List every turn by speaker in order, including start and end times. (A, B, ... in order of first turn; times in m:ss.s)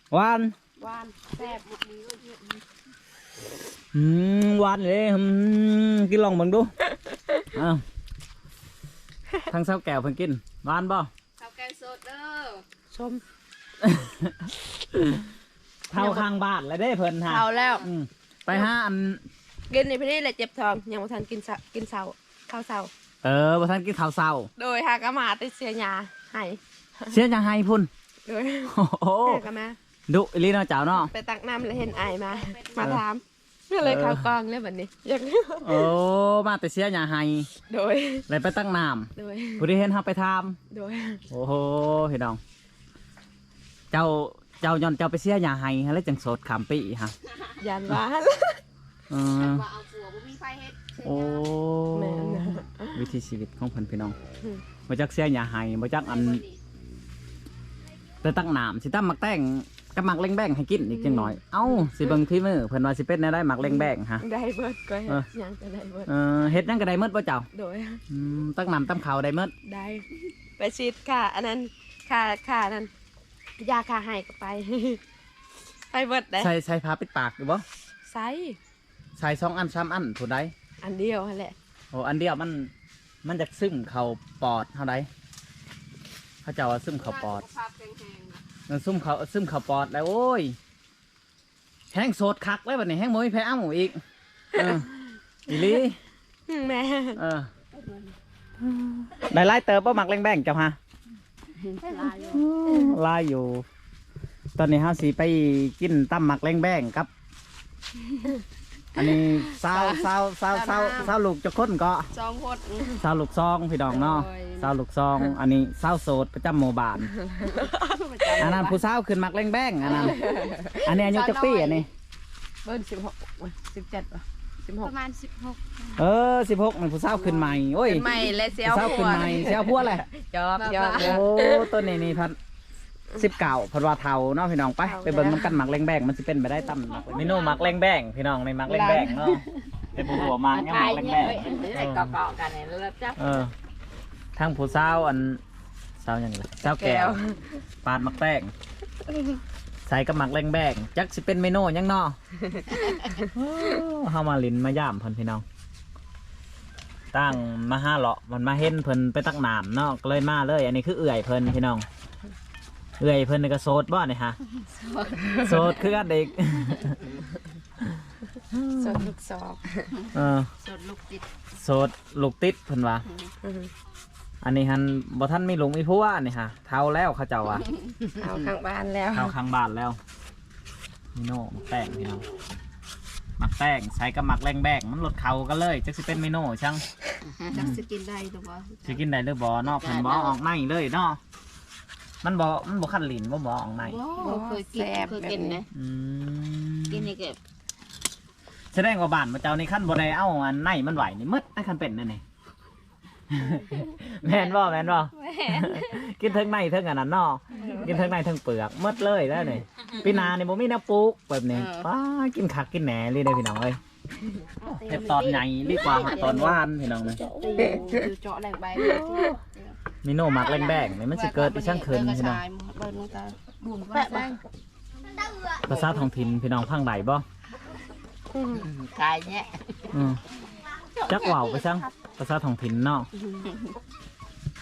0:00.1-0:00.5 A
0:00.8-0:01.6 B
0:01.3-0:02.6 C
0:03.9-0:06.7 A
0:07.5-0:07.8 A
0:09.5-0:11.1 A
0:11.4-0:12.6 C
0:12.9-0:13.2 B
0:13.8-0:15.3 A
0:15.9-0:19.2 A
0:16.0-0:16.2 B
0:17.2-0:17.9 B
0:17.5-0:17.8 C
0:19.7-0:22.9 B
0:23.2-0:24.5 A
0:24.6-0:27.1 B
0:27.1-0:27.9 A
0:28.2-0:29.8 B
0:28.7-0:29.4 A
0:30.1-0:31.1 A
0:31.0-0:35.9 B
0:31.9-0:32.9 C
0:33.8-0:34.3 A
0:35.6-0:37.5 A
0:37.7-0:38.3 B
0:38.3-0:40.6 A
0:39.2-0:39.6 B
0:40.7-0:41.2 B
0:41.3-0:42.4 A
0:43.9-0:47.1 A
0:47.6-0:48.6 B
0:49.1-0:49.6 A
0:49.3-0:51.4 C
0:51.0-0:54.1 A
0:51.9-0:53.0 B
0:54.9-0:56.4 A
0:56.1-0:56.6 B
0:58.2-1:04.2 A
1:01.0-1:01.4 B
1:03.6-1:06.1 B
1:06.1-1:07.5 A
1:07.5-1:08.0 B
1:08.1-1:09.5 A
1:09.6-1:10.0 B
1:10.6-1:12.9 B
1:13.6-1:15.0 B
1:15.9-1:16.5 B
1:16.4-1:17.6 A
1:18.0-1:18.6 B
1:19.2-1:20.5 A
1:20.8-1:21.6 B
1:21.9-1:22.7 A
1:23.2-1:25.1 A
1:26.4-1:27.4 A
1:27.0-1:28.4 C
1:28.7-1:30.6 A
1:31.9-1:34.0 A
1:34.5-1:34.9 A
1:34.5-1:35.0 B
1:35.5-1:36.0 A
1:35.5-1:35.8 B
1:36.5-1:37.2 B
1:37.2-1:37.5 A
1:37.7-1:38.1 C
1:38.7-1:40.8 A
1:41.6-1:42.4 C
1:42.3-1:43.6 A
1:44.6-1:47.1 A
1:48.9-1:52.1 A
1:49.6-1:50.0 C
1:50.5-1:51.1 B
1:50.6-1:51.1 C
1:52.1-1:53.0 C
1:53.0-1:57.1 A
1:53.9-1:54.7 C
1:57.1-1:58.3 B
1:57.4-1:58.8 C
1:58.3-2:00.2 A
1:59.8-2:01.8 B
1:59.9-2:00.6 C
2:00.8-2:01.9 A
2:02.6-2:04.9 B
2:04.8-2:05.9 C
2:06.0-2:08.1 A
2:07.3-2:11.7 B
2:08.6-2:10.1 A
2:10.6-2:11.2 C
2:11.0-2:12.4 A
2:13.2-2:22.2 A
2:14.8-2:15.5 B
2:17.1-2:17.6 C
2:18.7-2:19.5 C
2:20.0-2:23.5 C
2:23.2-2:23.5 A
2:24.4-2:25.4 A
2:26.0-2:27.2 A
2:26.6-2:27.4 B
2:27.8-2:28.5 A
2:29.8-2:32.2 A
2:33.2-2:35.4 A
2:37.1-2:41.8 A
2:43.0-2:44.4 A
2:44.6-2:45.8 C
2:45.4-2:47.0 A
2:48.5-2:49.0 A
2:48.8-2:49.9 B
2:50.1-2:50.5 A
2:50.6-2:51.2 C
2:51.6-2:53.0 A
2:53.4-2:53.7 B
2:54.4-2:57.6 A
2:58.2-2:59.3 B
2:59.1-3:00.0 A
3:01.1-3:02.2 A
3:03.4-3:06.8 A
3:07.3-3:09.0 C
3:07.5-3:07.8 A
3:08.8-3:11.2 A
3:09.7-3:10.4 C
3:12.2-3:14.0 A
3:13.8-3:15.6 C
3:14.2-3:15.6 B
3:15.7-3:17.1 A
3:16.9-3:17.4 C
3:18.7-3:22.2 A
3:23.3-3:33.8 A
3:25.2-3:25.8 B
3:27.6-3:28.0 B
3:27.6-3:27.9 C
3:31.5-3:31.9 C
3:34.6-3:36.6 B
3:34.6-3:36.6 C
3:34.8-3:37.2 A
3:37.1-3:38.0 B
3:37.2-3:39.7 C
3:38.8-3:39.4 B
3:40.0-3:42.4 A
3:40.3-3:44.4 C
3:43.9-3:44.4 B
3:45.5-3:46.0 C
3:45.7-3:47.2 A
3:48.3-3:48.7 B
3:48.5-3:49.9 C
3:49.9-3:50.2 A
3:51.0-3:51.7 C
3:51.1-3:53.1 A